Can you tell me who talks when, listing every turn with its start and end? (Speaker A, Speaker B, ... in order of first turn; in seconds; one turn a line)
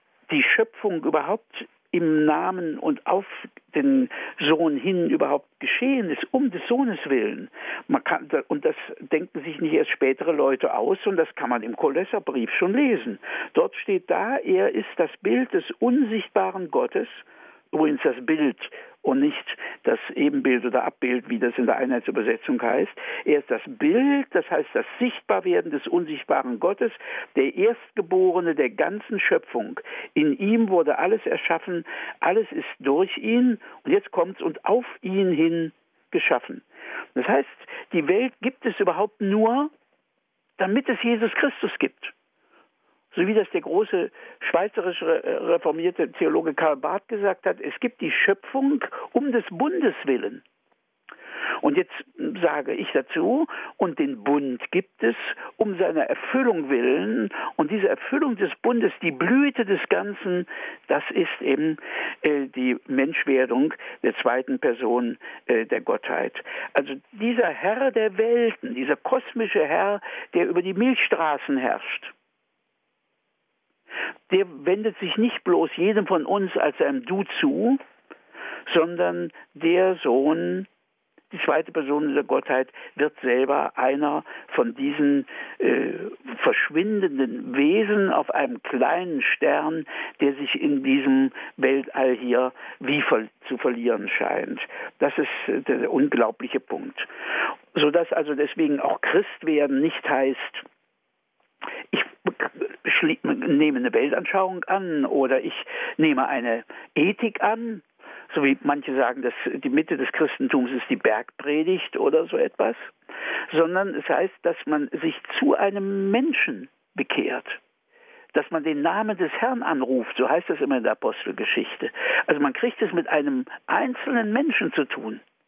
Speaker A: 0.3-39.7
Speaker A: 40.6-42.1
Speaker A: 43.1-50.4
Speaker A: 51.6-72.1
Speaker A: 74.3-77.8
Speaker A: 78.7-80.7
Speaker A: 81.3-97.1
Speaker A: 97.7-100.7
Speaker A: 101.9-112.9
Speaker A: 113.5-117.6
Speaker A: 118.3-125.2